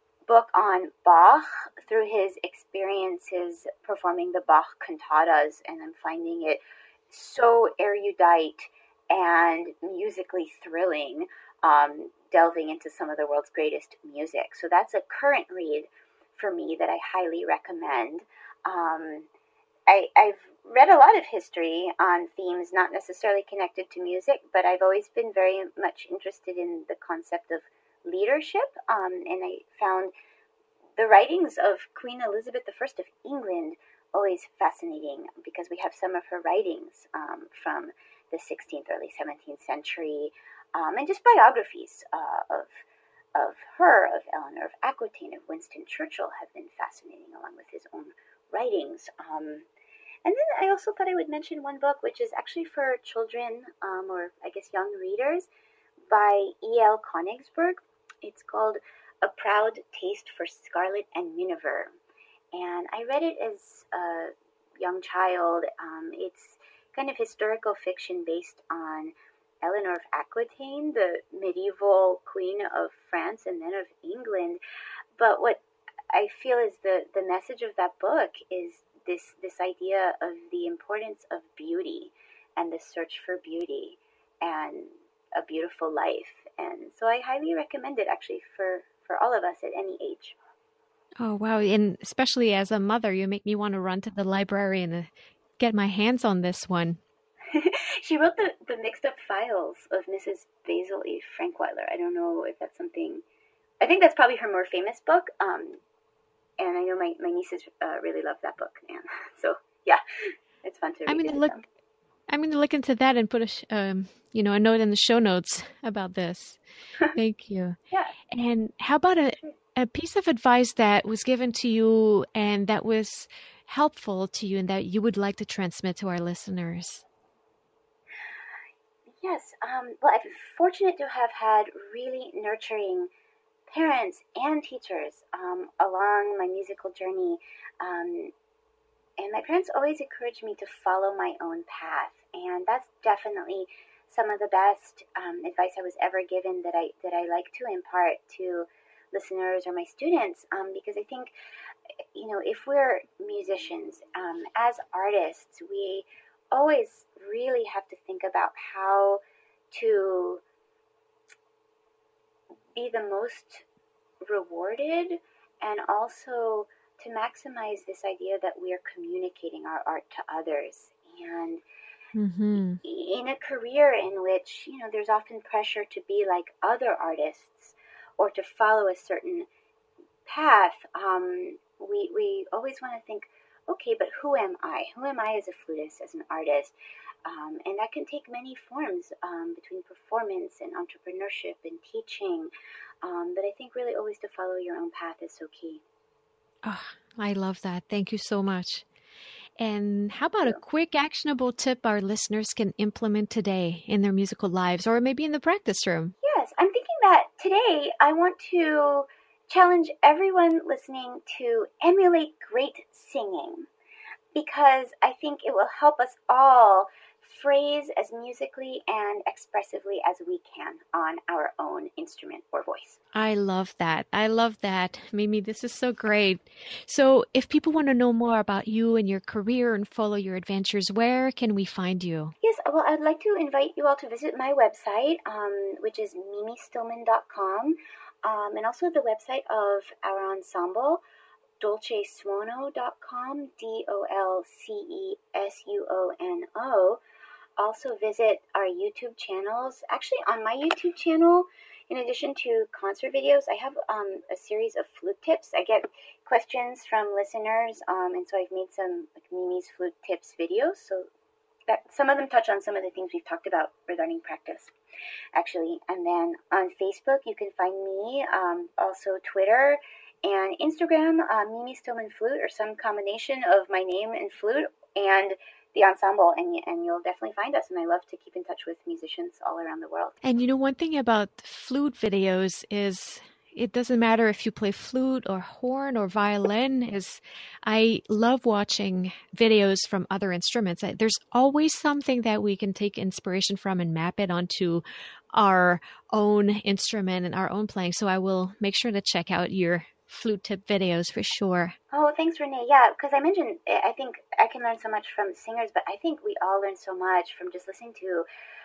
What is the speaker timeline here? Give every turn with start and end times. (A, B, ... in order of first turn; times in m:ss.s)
0:00.3-0:19.3 A
0:19.9-0:30.1 A
0:31.0-0:42.8 A
0:43.4-0:49.7 A
0:50.2-0:55.5 A
0:56.1-1:01.9 A
1:02.5-1:14.6 A
1:15.2-1:30.4 A
1:31.2-1:37.0 B
1:37.5-1:43.2 A
1:43.8-1:45.8 A
1:46.6-1:50.0 A
1:50.6-1:51.6 A
1:51.1-1:51.6 B
1:52.3-1:56.6 B
1:57.2-1:57.8 B
1:58.3-2:07.1 B
2:09.2-2:13.1 A
2:13.7-2:18.3 A
2:19.2-2:31.3 A
2:32.2-2:40.4 A
2:42.7-2:43.6 A
2:44.2-2:51.6 A
2:52.2-2:52.8 B
2:52.8-2:59.5 A
3:00.2-3:06.7 A
3:07.2-3:12.5 A
3:13.0-3:15.8 A
3:16.6-3:18.8 B
3:19.6-3:26.2 B
3:26.2-3:33.7 A
3:34.3-3:43.0 A
3:43.1-3:52.3 B
3:52.4-4:01.0 A
4:01.6-4:07.0 A
4:07.6-4:21.1 A
4:21.7-4:24.7 A
4:25.3-4:40.2 A
4:40.2-5:01.8 B
5:01.9-5:08.3 A